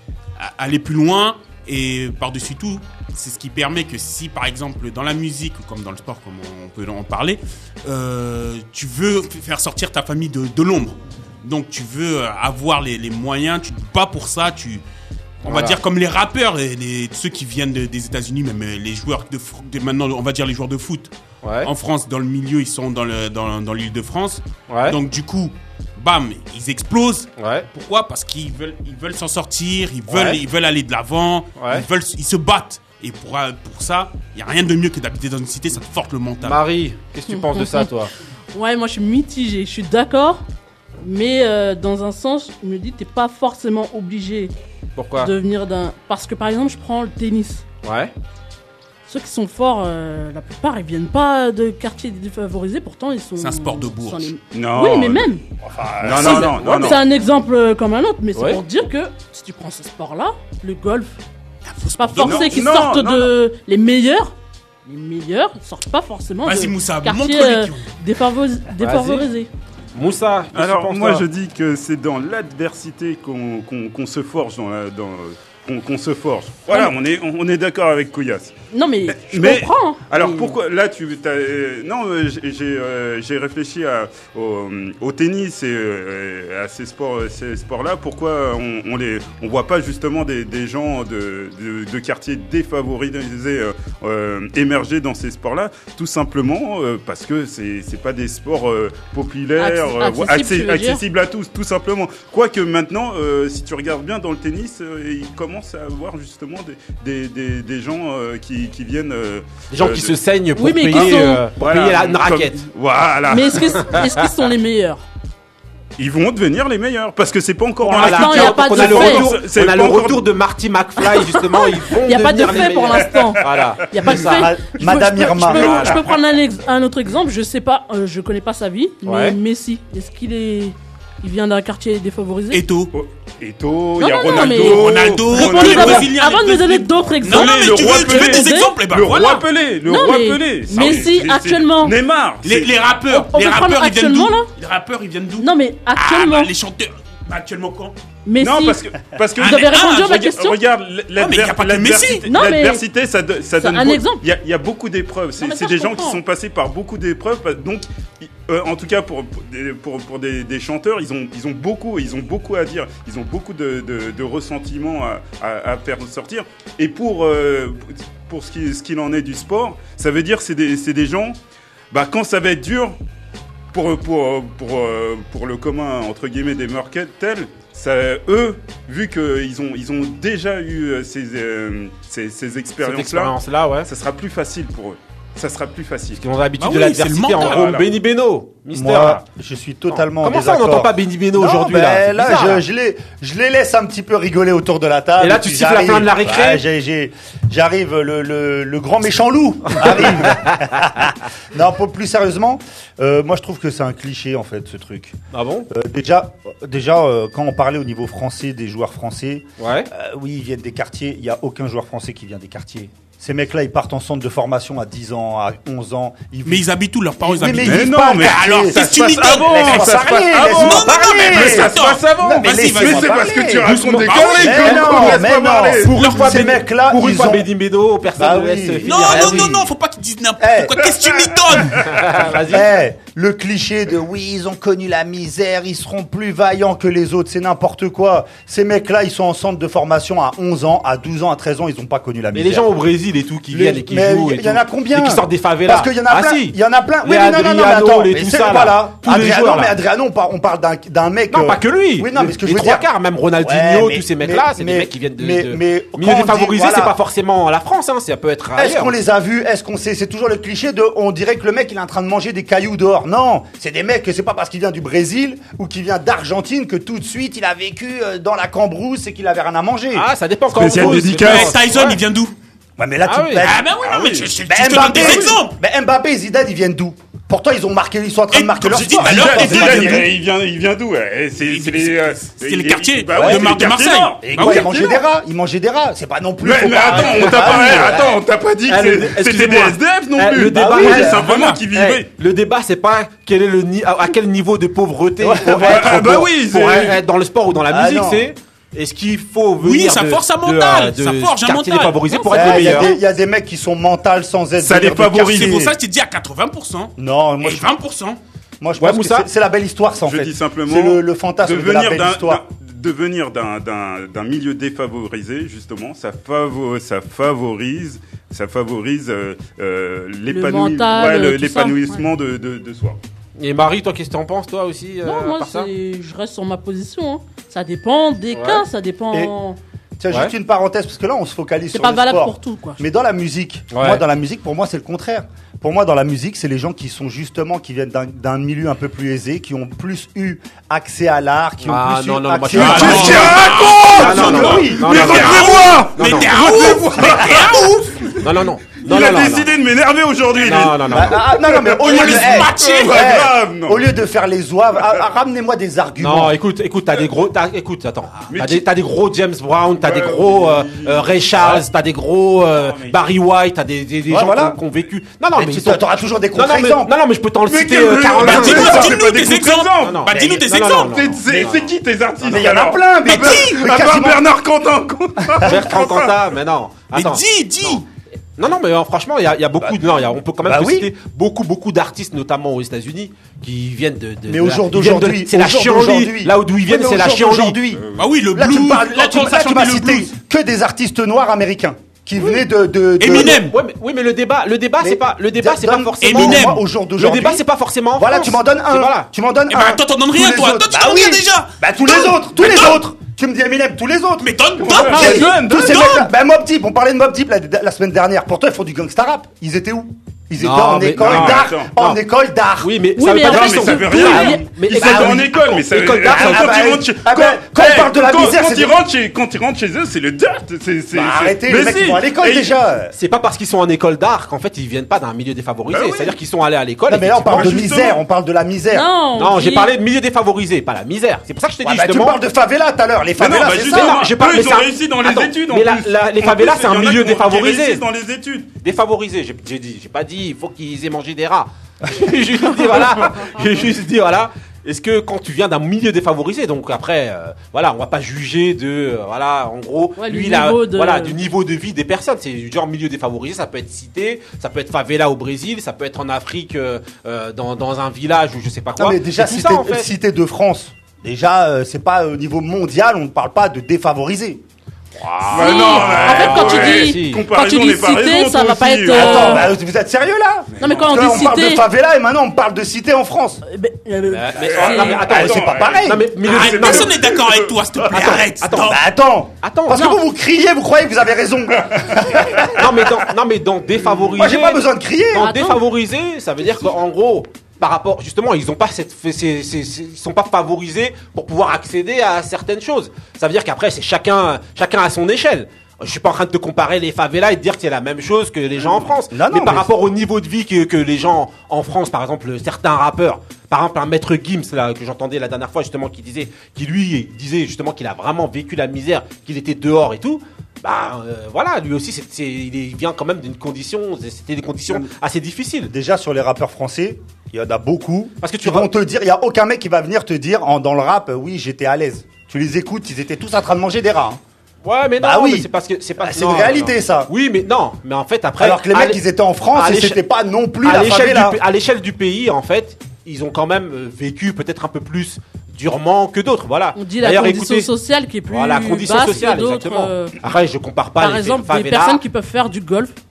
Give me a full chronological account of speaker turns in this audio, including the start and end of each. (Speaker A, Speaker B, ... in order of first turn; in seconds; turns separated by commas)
Speaker A: 0.4-14.8, Speaker A: 15.4-21.1, Speaker B: 15.4-15.8, Speaker B: 21.4-21.7, Speaker A: 21.6-36.6, Speaker B: 24.7-25.0, Speaker B: 27.4-27.7, Speaker B: 30.1-30.4, Speaker B: 31.6-31.8, Speaker B: 36.4-38.1, Speaker C: 37.3-37.9, Speaker C: 38.5-40.4, Speaker C: 41.0-44.5, Speaker B: 45.0-45.3, Speaker C: 45.2-47.6, Speaker B: 47.8-48.1, Speaker C: 49.1-55.4, Speaker A: 53.4-54.3, Speaker D: 54.5-55.3, Speaker E: 55.6-56.9, Speaker D: 56.0-57.0, Speaker C: 56.2-61.2, Speaker B: 58.4-58.6, Speaker A: 61.7-62.8, Speaker C: 62.0-64.3, Speaker D: 62.2-63.3, Speaker C: 64.9-69.5, Speaker A: 66.5-67.9, Speaker B: 68.8-69.2, Speaker B: 70.0-71.3, Speaker D: 70.5-78.6, Speaker C: 78.7-80.5, Speaker D: 79.1-110.2, Speaker C: 99.6-101.0, Speaker B: 109.7-112.6, Speaker C: 110.6-111.5, Speaker D: 110.9-114.0, Speaker C: 113.3-115.0, Speaker D: 116.0-120.3, Speaker C: 117.8-119.3, Speaker B: 117.9-124.5, Speaker C: 121.1-132.6, Speaker D: 123.0-123.4, Speaker E: 124.2-125.9, Speaker B: 125.5-126.0, Speaker B: 129.1-129.4, Speaker A: 132.5-132.9, Speaker D: 132.9-136.1, Speaker C: 134.0-138.8, Speaker A: 134.4-139.4, Speaker D: 137.2-142.8, Speaker C: 139.8-141.9, Speaker A: 140.7-141.1, Speaker A: 142.4-147.9, Speaker C: 143.1-144.5, Speaker C: 145.4-146.5, Speaker C: 148.3-148.8, Speaker D: 148.4-171.4, Speaker A: 149.4-150.2, Speaker C: 149.4-150.6, Speaker A: 151.2-152.2, Speaker C: 152.3-152.8, Speaker C: 153.6-154.2, Speaker C: 155.4-156.2, Speaker D: 171.9-173.0, Speaker D: 173.7-186.2, Speaker B: 182.8-183.9, Speaker B: 186.2-189.2, Speaker A: 186.6-187.8, Speaker D: 187.4-187.9, Speaker E: 188.7-205.2, Speaker B: 189.9-192.6, Speaker B: 195.2-196.6, Speaker B: 199.7-200.7, Speaker B: 205.3-205.7, Speaker E: 205.7-216.7, Speaker B: 209.6-209.9, Speaker A: 216.4-223.1, Speaker E: 217.2-223.8, Speaker D: 217.5-226.0, Speaker B: 223.6-225.2, Speaker A: 224.1-224.6, Speaker E: 224.4-227.5, Speaker B: 225.8-229.7, Speaker E: 228.2-229.7, Speaker A: 228.9-231.9, Speaker E: 230.4-230.9, Speaker B: 231.8-232.7, Speaker E: 232.5-242.7, Speaker B: 242.3-249.8, Speaker E: 243.5-252.9, Speaker B: 251.3-258.9, Speaker E: 253.4-257.0, Speaker E: 258.6-270.1, Speaker B: 269.9-272.0, Speaker D: 270.6-271.6, Speaker A: 270.8-272.3, Speaker E: 272.8-273.7, Speaker B: 273.1-273.5, Speaker A: 273.4-275.6, Speaker D: 273.8-274.3, Speaker E: 274.4-280.1, Speaker D: 274.9-275.4, Speaker A: 278.3-280.0, Speaker D: 279.0-285.0, Speaker A: 281.4-284.7, Speaker E: 283.1-283.6, Speaker E: 284.2-288.2, Speaker D: 286.4-292.1, Speaker B: 286.9-287.9, Speaker B: 288.7-302.9, Speaker E: 290.5-291.3, Speaker A: 291.3-291.6, Speaker E: 295.2-296.2, Speaker D: 295.6-297.0, Speaker E: 297.7-298.3, Speaker A: 299.6-302.6, Speaker E: 302.3-305.7, Speaker D: 304.6-305.7, Speaker A: 305.0-308.2, Speaker E: 307.0-307.7, Speaker E: 308.6-312.4, Speaker B: 308.8-309.3, Speaker D: 310.0-323.0, Speaker C: 320.3-322.0, Speaker B: 323.4-325.7, Speaker C: 325.0-329.6, Speaker B: 328.3-328.6, Speaker E: 330.0-345.5, Speaker C: 331.7-332.8, Speaker B: 333.7-334.0, Speaker B: 341.6-343.4, Speaker A: 342.5-348.1, Speaker D: 342.5-353.9, Speaker B: 344.0-346.3, Speaker B: 348.2-349.5, Speaker B: 350.4-351.2, Speaker E: 350.9-356.4, Speaker A: 351.7-353.0, Speaker B: 356.0-369.0, Speaker D: 358.3-358.7, Speaker D: 359.8-361.6, Speaker D: 362.5-363.1, Speaker E: 364.1-364.6, Speaker E: 365.4-366.9, Speaker D: 367.5-370.1, Speaker A: 367.8-371.0, Speaker B: 369.8-371.5, Speaker D: 370.9-376.2, Speaker E: 371.3-371.7, Speaker E: 372.2-374.2, Speaker A: 373.1-373.5, Speaker E: 375.3-375.6, Speaker B: 375.4-377.8, Speaker A: 376.9-377.9, Speaker B: 378.4-387.6, Speaker E: 379.6-380.9, Speaker E: 384.3-393.4, Speaker D: 387.8-388.1, Speaker A: 388.0-390.1, Speaker A: 393.0-393.5, Speaker B: 393.0-399.1, Speaker E: 394.8-397.4, Speaker A: 396.0-396.6, Speaker E: 398.0-412.8, Speaker A: 399.5-402.8, Speaker A: 404.2-406.1, Speaker D: 404.6-406.1, Speaker B: 410.4-412.0, Speaker D: 411.0-411.7, Speaker B: 412.6-416.6, Speaker C: 413.0-414.5, Speaker D: 413.3-422.6, Speaker E: 414.7-418.8, Speaker E: 420.9-422.9, Speaker B: 422.9-427.7, Speaker D: 425.7-426.1, Speaker E: 426.9-428.9, Speaker D: 427.3-428.0, Speaker C: 428.7-429.8, Speaker B: 429.2-432.2, Speaker E: 431.6-434.1, Speaker D: 433.2-438.5, Speaker B: 433.6-437.8, Speaker B: 438.6-459.9, Speaker C: 450.0-451.2, Speaker E: 458.8-464.4, Speaker B: 465.0-467.2, Speaker D: 465.3-469.5, Speaker C: 465.3-469.5, Speaker E: 468.9-473.4, Speaker C: 470.6-471.6, Speaker D: 470.7-471.2, Speaker C: 473.4-475.1, Speaker B: 474.1-476.9, Speaker D: 474.3-477.6, Speaker E: 474.9-476.1, Speaker A: 476.2-478.8, Speaker B: 477.9-478.8, Speaker E: 478.6-482.5, Speaker B: 479.4-480.0, Speaker D: 481.9-482.5, Speaker B: 482.5-515.7, Speaker E: 484.2-485.3, Speaker C: 485.2-485.6, Speaker E: 499.1-499.7, Speaker E: 515.7-524.2, Speaker B: 518.2-518.7, Speaker B: 524.6-530.0, Speaker E: 525.0-527.1, Speaker E: 528.4-531.4, Speaker B: 530.6-537.7, Speaker C: 536.8-540.2, Speaker B: 538.3-542.0, Speaker C: 541.0-543.0